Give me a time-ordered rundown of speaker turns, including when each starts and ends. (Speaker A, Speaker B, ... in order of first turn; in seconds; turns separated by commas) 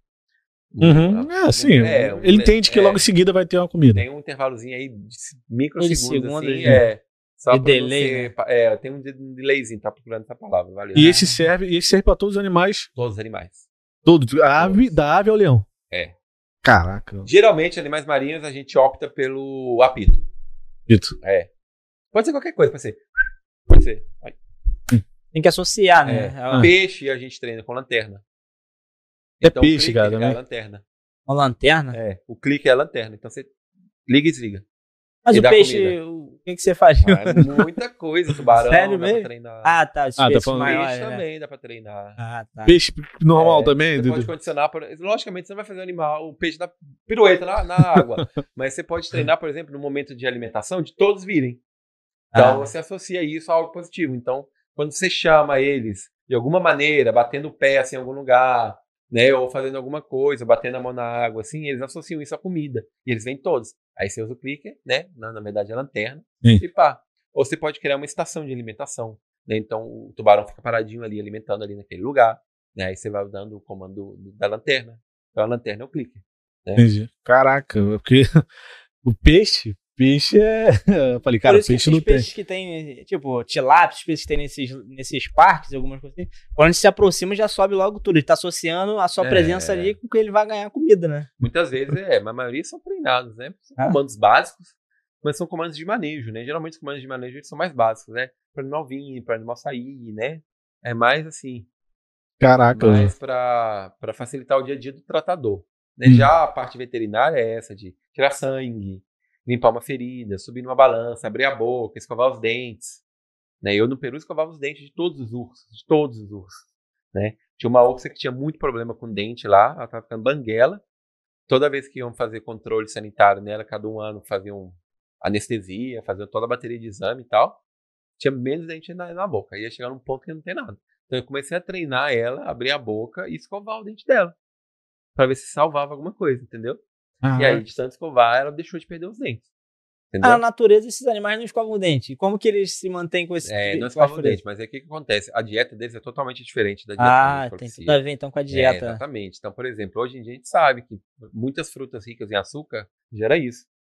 Speaker A: 0.7-3.0, Speaker B: 0.8-4.0, Speaker A: 3.9-11.2, Speaker C: 5.8-6.8, Speaker C: 7.5-8.3, Speaker B: 10.9-12.9, Speaker C: 11.0-11.4, Speaker A: 12.9-13.7, Speaker B: 14.0-15.7, Speaker A: 14.6-15.0, Speaker B: 16.6-17.3, Speaker A: 17.2-20.2, Speaker B: 20.9-21.1, Speaker A: 21.2-21.5, Speaker A: 22.1-23.0, Speaker A: 23.7-24.4, Speaker C: 25.3-26.7, Speaker A: 26.0-28.2, Speaker A: 29.4-30.8, Speaker B: 29.4-30.4, Speaker C: 31.3-32.0, Speaker A: 31.9-33.5, Speaker A: 34.0-34.6, Speaker C: 35.2-37.4, Speaker A: 35.3-36.0, Speaker A: 37.0-39.8, Speaker B: 37.1-37.6, Speaker C: 38.7-41.2, Speaker B: 40.2-40.7, Speaker A: 40.4-42.2, Speaker C: 42.2-42.8, Speaker B: 42.6-44.3, Speaker A: 43.4-51.6, Speaker C: 52.3-52.7, Speaker A: 52.3-76.8, Speaker B: 76.8-78.4, Speaker B: 79.0-82.3, Speaker C: 81.5-91.3, Speaker A: 89.2-90.0, Speaker A: 91.4-101.7, Speaker B: 102.4-103.1, Speaker A: 102.7-113.0, Speaker B: 106.0-106.3, Speaker A: 113.6-120.8, Speaker A: 121.5-127.6, Speaker A: 128.2-134.3, Speaker A: 135.2-136.8, Speaker B: 137.2-137.6, Speaker A: 137.3-139.4, Speaker A: 140.1-140.4, Speaker C: 140.2-144.4, Speaker A: 143.4-153.7, Speaker C: 147.0-149.0